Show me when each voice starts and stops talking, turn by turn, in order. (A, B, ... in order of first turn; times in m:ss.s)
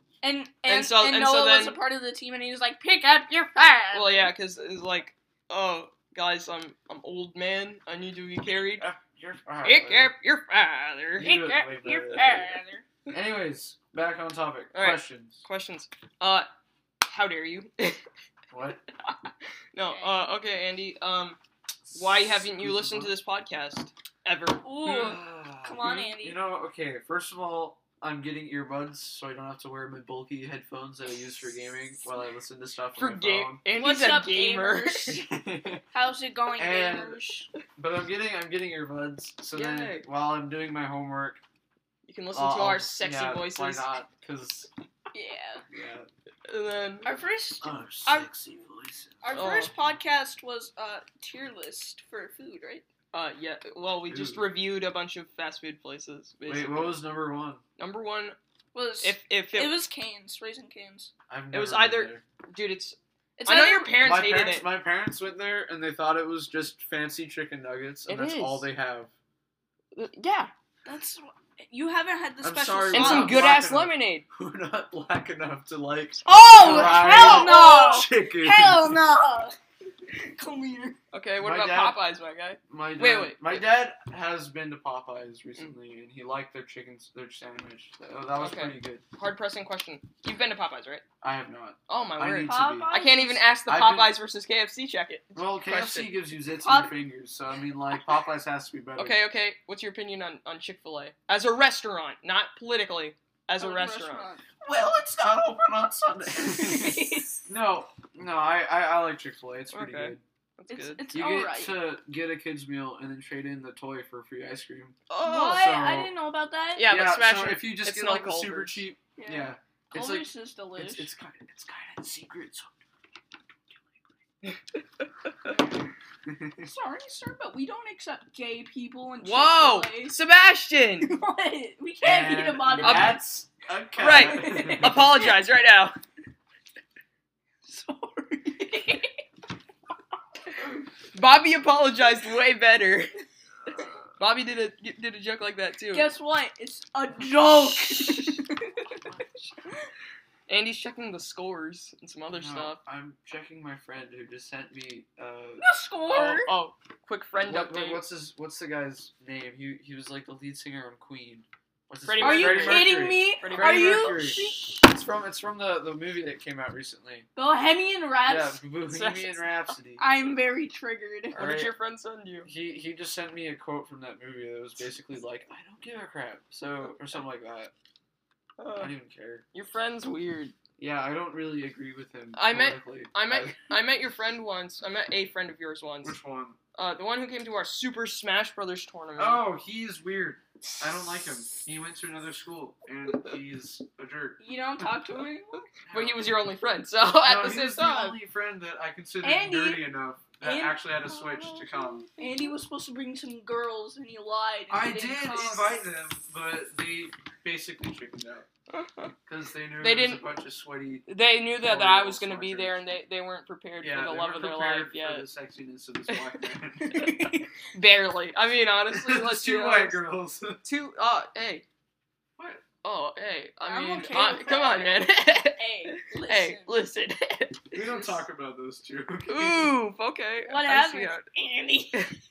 0:00.2-0:04.3 A
0:00.7-0:01.8 B
0:03.9-0:08.9 B
0:08.8-0:10.1 C
0:09.6-0:11.4 B
0:11.2-0:12.8 A
0:11.2-0:15.4 C
0:14.7-0:16.5 B
0:17.0-0:18.0 B
0:18.5-0:18.8 C
0:19.1-0:21.4 B
0:19.8-0:20.3 A
0:21.9-0:23.1 C
0:21.9-0:24.8 B
0:24.6-0:26.4 A
0:24.8-0:33.6 C
0:33.0-0:35.2 B
0:33.8-0:35.3 A
0:35.1-0:35.8 C
0:35.9-0:37.5 A
0:36.6-0:37.2 C
0:37.7-0:41.4 C
0:39.5-0:40.1 B
0:42.1-0:44.0 B
0:42.3-0:44.7 C
0:45.1-0:45.6 A
0:45.7-0:46.1 C
0:46.5-0:47.1 B
0:47.0-0:48.3 A
0:47.6-0:49.2 C
0:49.2-0:52.8 A
0:49.3-0:49.7 B
0:53.1-0:57.0 B
0:54.1-0:54.5 C
0:56.5-0:57.6 C
0:57.8-0:58.4 B
0:58.7-1:01.1 A
0:59.0-0:59.8 B
1:01.3-1:02.2 C
1:01.5-1:04.7 B
1:03.4-1:04.0 A
1:04.0-1:09.1 C
1:08.1-1:08.7 B
1:09.9-1:10.5 B
1:10.8-1:13.5 A
1:12.4-1:19.1 C
1:12.9-1:14.2 B
1:16.3-1:19.6 A
1:16.3-1:17.8 B
1:20.1-1:21.0 A
1:21.1-1:23.6 B
1:21.4-1:22.0 C
1:22.7-1:29.0 C
1:28.4-1:31.0 B
1:31.2-1:32.9 C
1:31.9-1:36.1 B
1:32.2-1:33.5 A
1:33.7-1:34.2 C
1:35.4-1:39.2 C
1:36.6-1:36.9 A
1:39.0-1:44.3 B
1:43.6-1:44.4 A
1:44.6-1:50.2 C
1:46.4-1:47.4 A
1:49.7-1:51.1 B
1:50.7-1:51.8 A
1:51.1-1:56.1 C
1:55.1-1:55.7 B
1:55.2-1:56.9 A
1:56.8-1:58.8 B
1:56.9-2:02.7 C
1:59.2-2:01.1 A
2:06.3-2:06.7 C
2:06.6-2:10.2 A
2:09.2-2:11.2 B
2:11.0-2:13.2 A
2:12.0-2:15.2 C
2:12.8-2:13.2 B
2:14.0-2:16.0 B
2:14.1-2:15.3 A
2:17.6-2:19.1 A
2:21.1-2:23.1 B
2:24.2-2:26.1 B
2:25.9-2:29.1 A
2:29.0-2:29.3 C
2:30.5-2:32.8 B
2:32.3-2:35.6 C
2:35.6-2:36.5 A
2:36.1-2:38.0 B
2:37.4-2:47.3 C
2:42.0-2:44.5 B
2:42.2-2:44.8 A
2:47.4-2:48.6 A
2:48.3-2:50.0 C
2:48.9-2:49.6 B
2:50.0-2:51.4 A
2:51.3-2:52.5 B
2:51.4-2:51.7 C
2:52.5-2:57.7 C
2:58.6-2:58.9 B
2:58.8-2:59.4 C
2:59.5-3:00.5 B
3:00.8-3:03.6 C
3:02.3-3:06.2 B
3:06.0-3:06.6 C
3:06.8-3:09.4 B
3:09.2-3:14.4 C
3:14.4-3:15.6 A
3:15.8-3:16.4 C
3:15.9-3:18.2 B
3:17.2-3:22.1 C
3:19.2-3:19.8 A
3:20.4-3:20.8 A
3:21.1-3:22.4 B
3:22.1-3:25.8 A
3:24.7-3:28.5 C
3:28.7-3:29.2 B
3:29.3-3:31.1 C
3:29.8-3:30.3 B
3:31.1-3:35.3 B
3:31.6-3:32.8 C
3:33.8-3:37.3 C
3:36.9-3:40.0 B
3:37.0-3:37.2 A
3:38.9-3:40.6 C
3:40.6-3:41.6 B
3:42.4-3:42.6 C
3:42.8-3:47.8 B
3:43.6-3:46.7 A
3:44.1-3:44.7 C
3:47.7-3:49.7 C
3:49.3-3:51.3 B
3:50.4-3:52.1 A
3:51.9-3:52.2 B